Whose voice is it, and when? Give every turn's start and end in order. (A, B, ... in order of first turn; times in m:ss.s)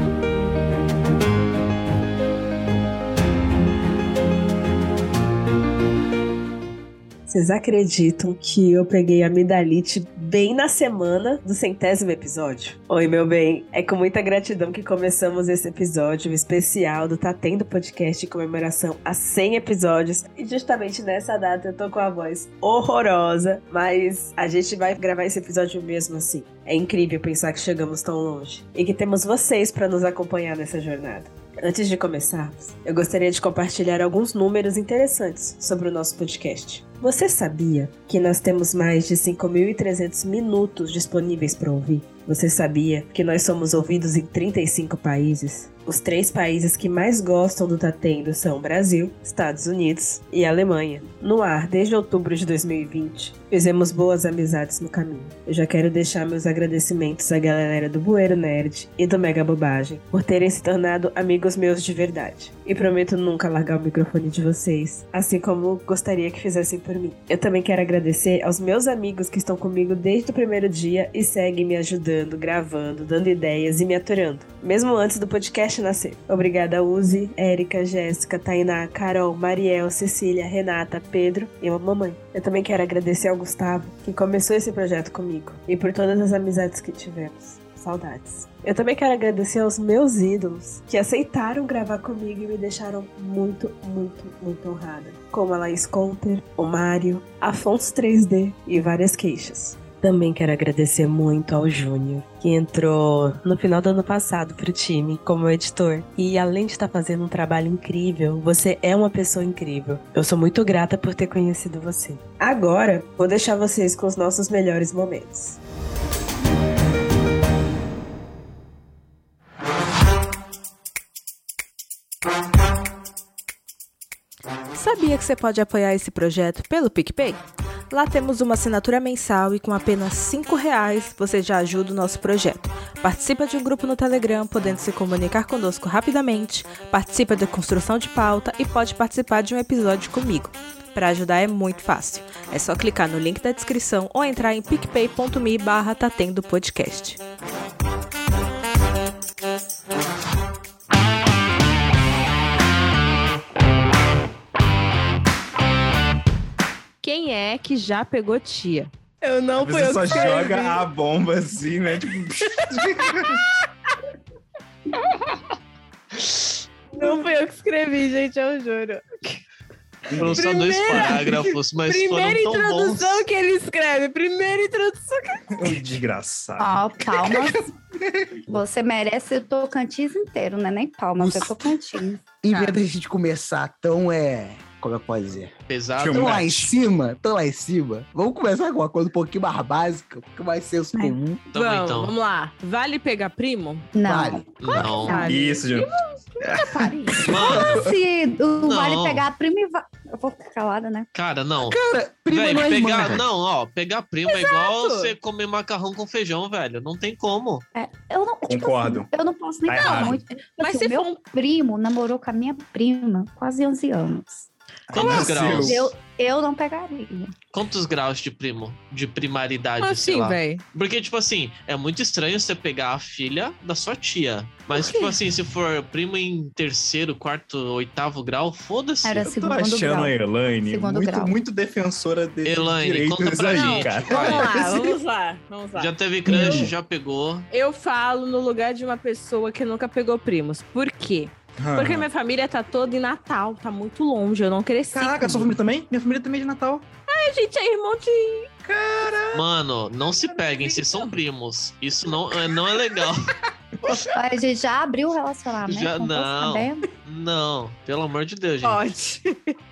0:07.3-1:55.6 A
2:04.7-2:27.2 B
2:37.0-2:40.8 C
2:39.6-2:43.4 D
2:46.9-2:49.4 C
2:50.1-2:50.8 D
2:50.2-2:53.2 E
2:50.3-2:55.4 C
2:55.5-2:57.5 D
2:56.6-2:57.6 F
2:58.5-3:02.4 F
3:01.2-3:01.6 G
3:02.4-3:05.5 G
3:02.5-3:02.8 C
3:05.7-3:06.7 E
3:06.0-3:06.6 D
3:06.1-3:11.4 G
3:11.5-3:12.2 E
3:11.5-3:13.9 C
3:13.9-3:15.4 F
3:14.0-3:14.4 G
3:14.6-3:15.2 E
3:14.7-3:15.9 C
3:15.2-3:17.3 D
3:16.5-3:21.1 F
3:17.3-3:17.9 E
3:17.3-3:17.6 G
3:18.6-3:19.3 E
3:21.2-3:21.8 E
3:21.6-3:23.3 G
3:22.3-3:27.6 E
3:24.3-3:25.2 C
3:27.8-3:37.3 F
3:28.5-3:29.1 D
3:29.7-3:30.2 D
3:30.6-3:31.2 C
3:34.9-3:35.9 D
3:34.9-3:35.9 E
3:37.5-3:49.2 E
3:39.8-3:40.6 C
3:44.7-3:45.1 C
3:49.0-3:51.4 F
3:49.2-3:55.0 D
3:52.4-3:54.4 E
3:53.5-3:56.7 C
3:55.8-3:57.5 E
3:56.3-3:56.7 D
3:57.5-4:05.6 C
4:01.6-4:02.1 D
4:04.9-4:06.9 D
4:07.1-4:08.5 C
4:08.6-4:09.4 D
4:09.3-4:13.3 E
4:10.6-4:11.1 C
4:14.1-4:16.9 F
4:15.7-4:18.9 E
4:18.6-4:19.5 C